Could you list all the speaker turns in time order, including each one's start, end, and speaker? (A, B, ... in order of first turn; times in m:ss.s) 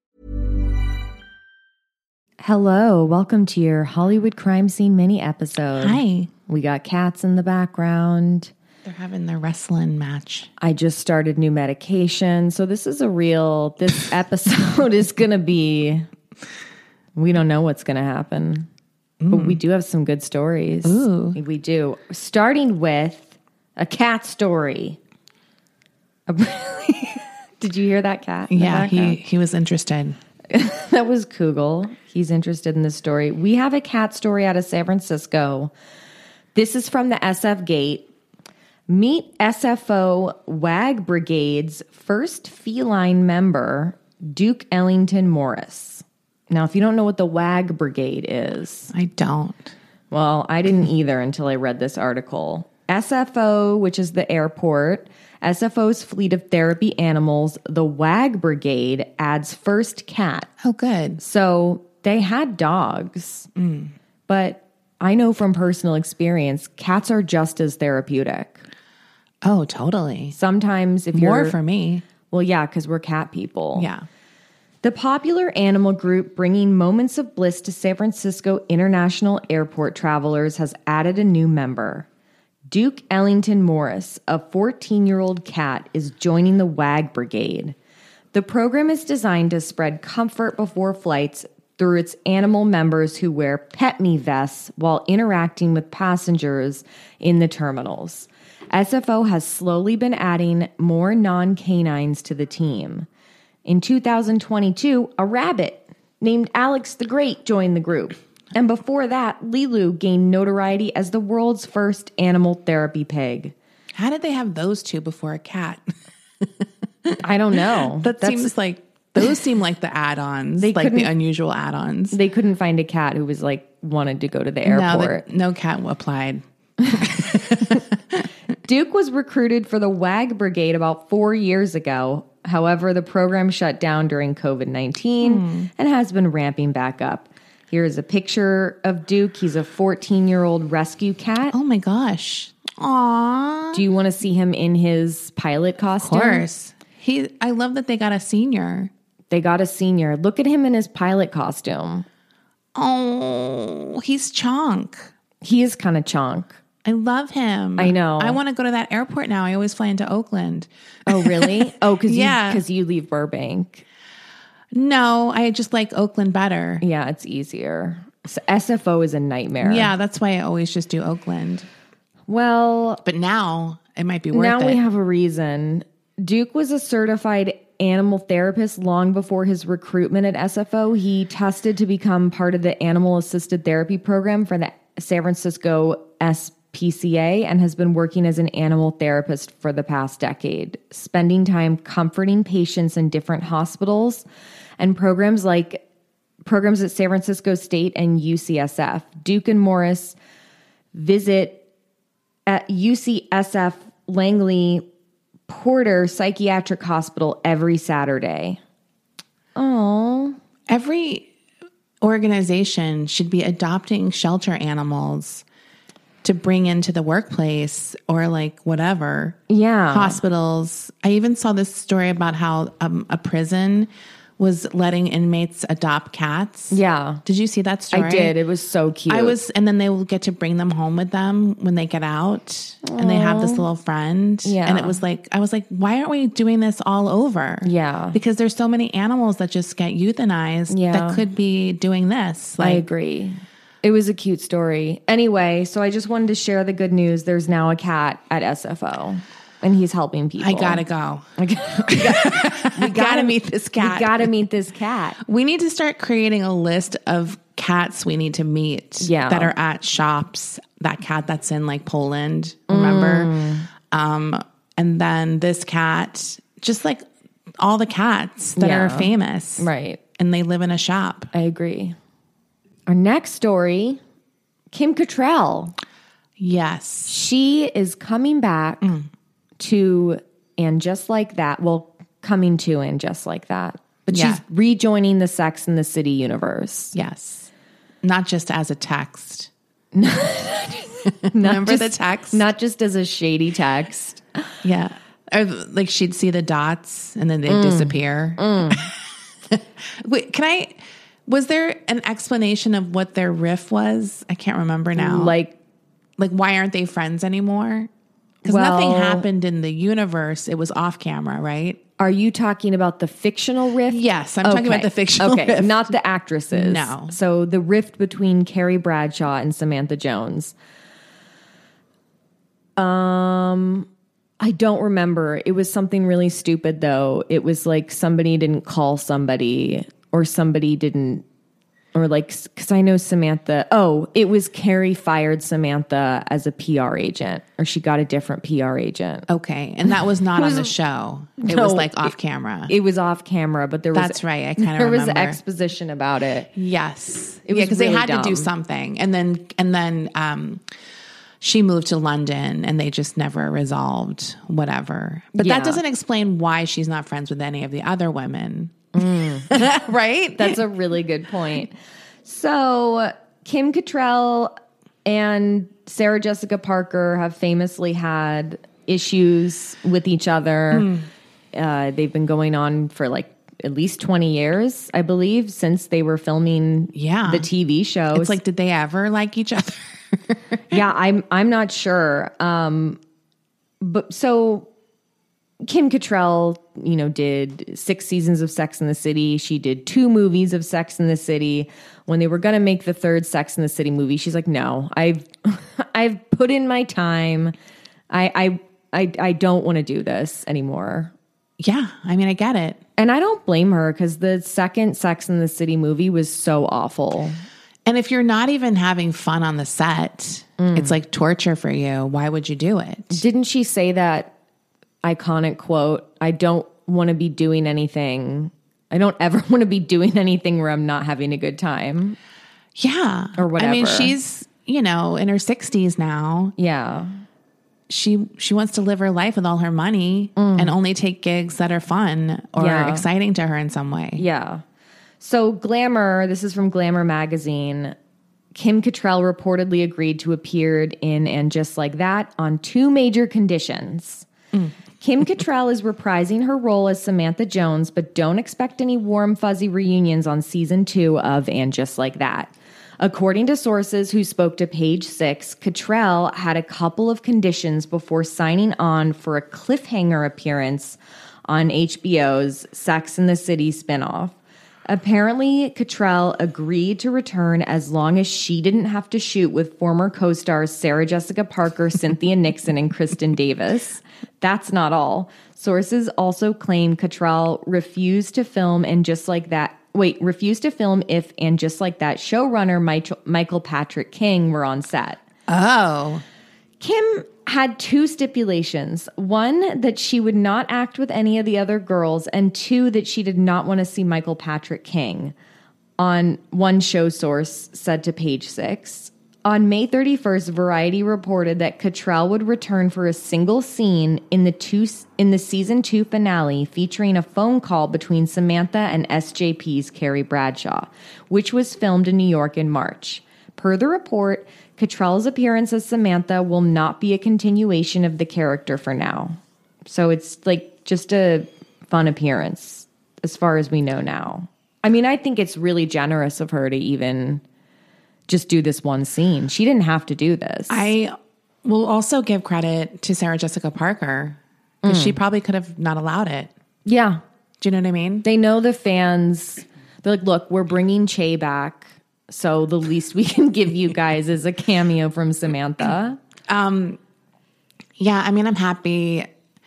0:02.4-0:08.5 A
0:05.8-0:06.3 B
0:08.8-0:10.5 B
0:10.6-0:16.1 A
0:17.2-0:18.7 A
0:19.2-0:19.6 B
0:19.3-0:25.0 A
0:20.8-0:21.4 B
0:26.3-0:29.2 A
0:28.5-0:30.2 B
0:30.5-0:35.7 A
0:36.5-0:38.1 A
0:38.9-0:48.9 A
0:48.9-0:49.7 B
0:50.1-1:00.5 A
1:00.6-1:01.2 B
1:01.2-1:03.5 A
1:03.6-1:03.9 B
1:04.3-1:08.6 A
1:09.4-1:10.4 B
1:10.3-1:11.6 A
1:11.1-1:12.0 B
1:12.3-1:13.9 A
1:13.8-1:14.0 B
1:14.8-1:22.0 A
1:22.7-1:27.7 A
1:28.3-1:43.1 A
1:43.6-1:53.5 A
1:53.9-1:55.9 B
1:56.4-1:57.2 B
1:57.2-1:58.5 A
1:57.8-2:02.2 B
2:00.6-2:01.1 A
2:02.1-2:05.2 A
2:04.6-2:08.2 B
2:08.6-2:21.5 A
2:15.2-2:15.7 B
2:21.5-2:23.8 B
2:23.7-2:26.4 A
2:26.0-2:28.9 B
2:29.3-2:32.0 A
2:32.7-2:35.1 B
2:35.4-2:36.6 A
2:36.8-2:42.6 B
2:37.8-2:38.4 A
2:41.0-2:43.8 A
2:44.7-2:46.8 B
2:46.8-2:49.9 A
2:49.6-2:51.7 B
2:52.3-2:53.0 A
2:53.0-2:54.8 B
2:54.3-3:14.2 A
3:14.8-3:15.8 A
3:16.4-3:20.2 A
3:20.9-3:21.6 A
3:22.4-3:24.8 A
3:25.5-3:28.6 A
3:29.6-3:30.4 A
3:30.7-3:31.3 B
3:32.0-3:35.4 B
3:36.2-3:39.4 B
3:39.5-3:40.2 A
3:39.9-3:48.3 B
3:46.7-3:47.2 A
3:47.9-3:49.4 A
3:49.1-4:02.8 B
3:52.8-3:53.6 A
3:54.4-3:55.0 A
3:57.6-3:58.2 A
4:00.7-4:01.2 A
4:02.6-4:10.8 A
4:10.4-4:11.3 B
4:11.4-4:15.2 A
4:11.8-4:14.3 B
4:15.2-4:23.3 B
4:19.0-4:19.5 A
4:22.7-4:23.7 A
4:23.9-4:27.0 B
4:27.6-4:31.3 B
4:28.6-4:30.0 A
4:31.3-4:32.0 A
4:32.9-4:34.0 A
4:34.7-4:35.7 A
4:36.4-4:37.1 B
4:37.1-4:38.9 A
4:39.6-4:46.9 A
4:44.1-4:44.4 B
4:46.9-4:47.5 B
4:48.0-4:49.5 B
4:49.9-4:54.2 A
4:51.3-4:52.4 B
4:54.6-4:58.9 B
4:57.5-4:58.9 A
4:59.5-5:05.3 B
5:05.0-5:05.5 A
5:06.2-5:07.9 B
5:08.4-5:11.8 B
5:08.4-5:09.2 A
5:12.0-5:20.5 A
5:13.9-5:15.9 B
5:16.5-5:17.1 B
5:22.8-5:23.9 A
5:24.4-5:31.2 A
5:31.9-5:39.3 A
5:39.3-5:42.7 B
5:40.3-5:40.7 A
5:41.4-5:42.1 A
5:42.7-5:46.5 A
5:43.9-5:45.4 B
5:46.5-5:50.6 B
5:47.4-5:48.5 A
5:51.4-6:00.6 B
5:55.3-5:55.8 A
5:58.9-5:59.6 A
6:00.4-6:10.9 A
6:10.7-6:11.0 B
6:11.5-6:18.4 A
6:16.9-6:17.5 B
6:18.1-6:20.8 B
6:20.7-6:23.0 A
6:23.8-6:24.7 A
6:25.6-6:37.5 A
6:38.1-6:41.1 A
6:41.6-6:42.8 B
6:43.0-6:47.4 A
6:47.8-6:53.2 B
6:50.6-6:50.9 A
6:53.1-6:54.3 A
6:55.0-7:02.2 A
7:02.7-7:06.5 B
7:03.4-7:04.1 A
7:06.6-7:07.2 A
7:07.9-7:14.2 B
7:10.4-7:10.7 A
7:12.6-7:13.0 A
7:14.2-7:14.6 A
7:15.2-7:18.0 A
7:18.5-7:24.3 A
7:25.0-7:41.0 A
7:41.5-7:44.3 A
7:44.9-8:05.2 A
8:05.5-8:06.2 B
8:06.8-8:15.3 A
8:16.0-8:47.4 A
8:48.3-8:50.9 A
8:50.7-8:56.5 B
8:54.8-8:55.2 A
8:56.8-8:57.2 A
8:57.6-8:58.2 B
8:58.2-9:06.2 A
9:06.5-9:07.0 B
9:08.0-9:09.3 B